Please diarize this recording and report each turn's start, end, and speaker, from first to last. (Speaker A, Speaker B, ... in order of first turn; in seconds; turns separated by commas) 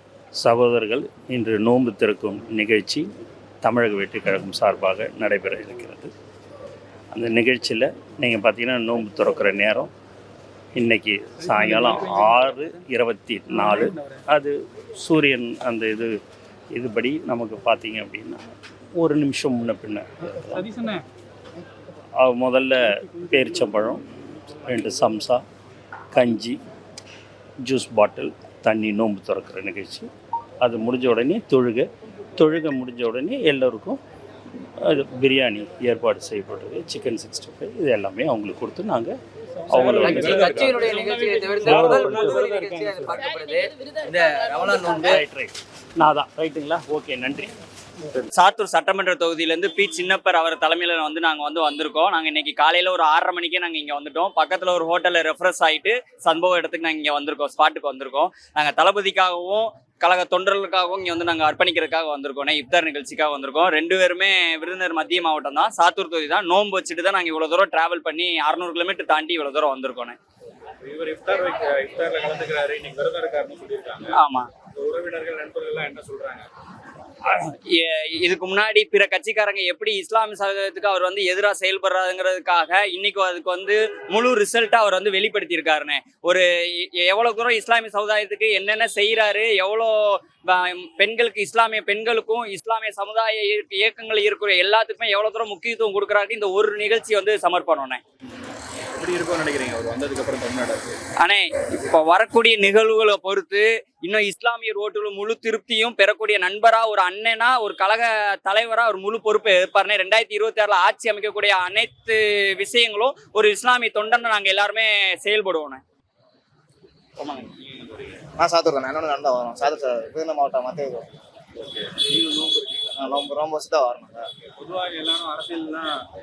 Speaker A: 0.4-3.0, Speaker A: 3.6-6.1, Speaker A: 7.1-9.9, Speaker A: 10.8-16.1, Speaker A: 16.7-18.4, Speaker A: 19.0-21.0, Speaker A: 22.2-25.4, Speaker A: 26.1-26.6, Speaker A: 27.6-30.1, Speaker A: 30.6-34.0, Speaker A: 34.8-39.1, Speaker A: 39.7-40.8, Speaker B: 39.7-45.2, Speaker C: 40.2-42.8, Speaker A: 41.6-42.5, Speaker A: 45.0-47.5, Speaker D: 48.3-70.2, Speaker C: 70.8-74.2, Speaker D: 74.1-74.5, Speaker C: 74.7-76.5, Speaker D: 77.3-86.4, Speaker D: 87.0-98.0, Speaker C: 99.0-101.0, Speaker D: 101.2-115.8, Speaker C: 117.6-118.2, Speaker E: 118.4-121.1, Speaker C: 121.6-122.9, Speaker E: 123.0-124.2, Speaker C: 124.5-125.9